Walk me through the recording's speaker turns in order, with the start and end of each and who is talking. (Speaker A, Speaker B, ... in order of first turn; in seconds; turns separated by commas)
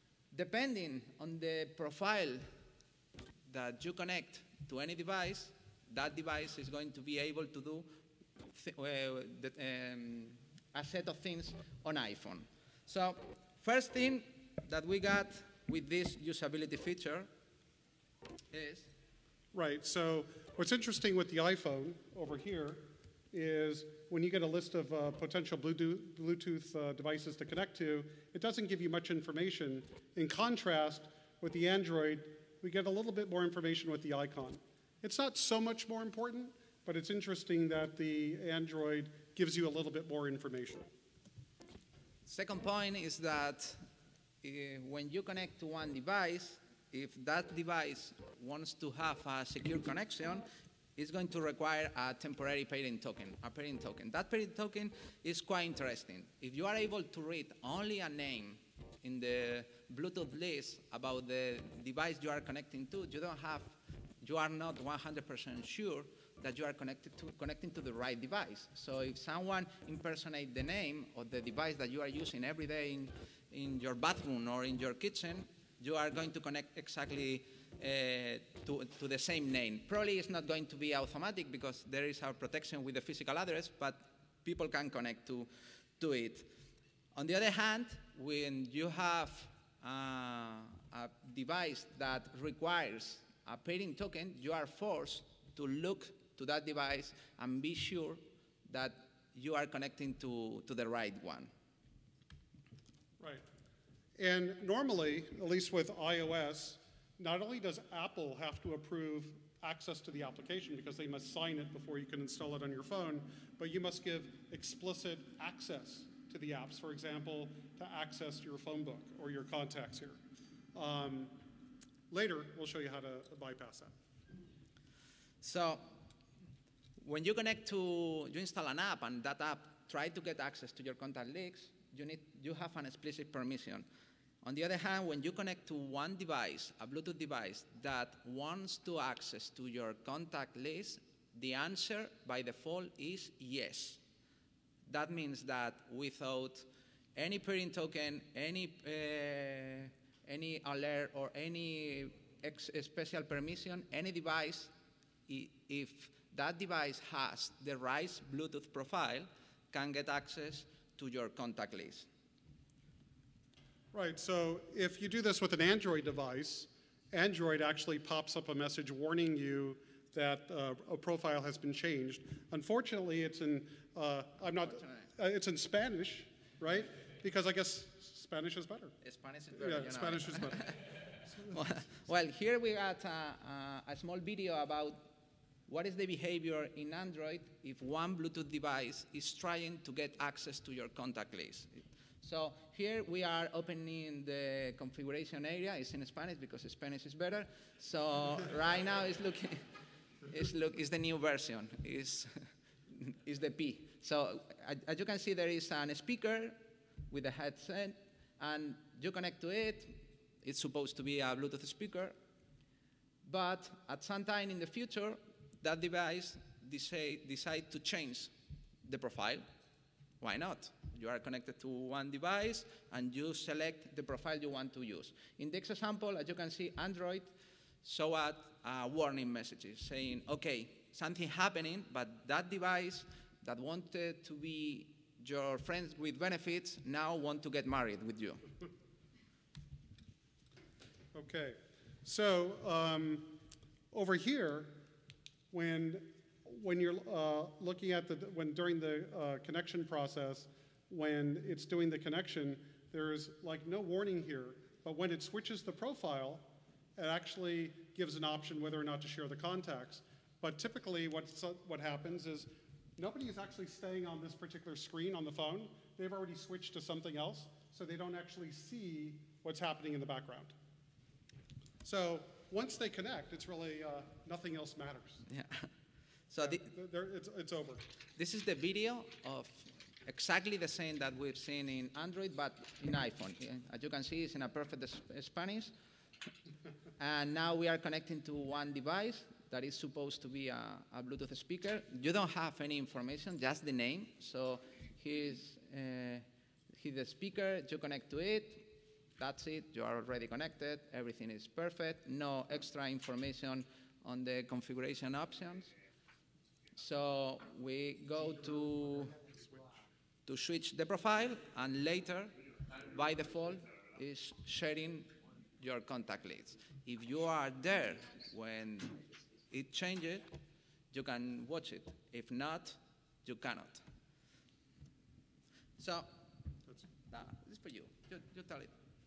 Speaker A: 0.3-2.5, Speaker A: 3.5-17.3, Speaker A: 18.5-18.9, Speaker B: 19.5-40.9, Speaker A: 42.2-43.8, Speaker A: 44.4-86.5, Speaker A: 87.1-101.5, Speaker B: 103.2-103.4, Speaker B: 104.2-120.2, Speaker B: 120.7-121.4, Speaker B: 122.1-123.9, Speaker A: 125.4-125.9, Speaker A: 127.0-133.8, Speaker A: 134.4-144.0, Speaker A: 144.8-154.7, Speaker A: 155.3-162.1, Speaker B: 163.9-178.9, Speaker A: 174.7-175.1, Speaker A: 179.0-180.8, Speaker B: 179.6-180.7, Speaker B: 181.3-181.6, Speaker A: 181.4-185.1, Speaker A: 185.7-199.7, Speaker A: 200.2-212.2, Speaker A: 213.2-218.3, Speaker A: 218.8-219.4, Speaker A: 220.2-238.4, Speaker B: 241.1-243.4, Speaker B: 243.9-244.8, Speaker B: 245.5-270.5, Speaker B: 271.8-275.2, Speaker A: 275.3-275.7, Speaker A: 276.3-276.6, Speaker B: 276.4-277.9, Speaker A: 278.2-285.7, Speaker A: 287.0-305.7, Speaker A: 306.8-309.2, Speaker A: 310.3-320.2, Speaker A: 320.9-323.8, Speaker A: 325.8-326.1, Speaker A: 327.1-328.7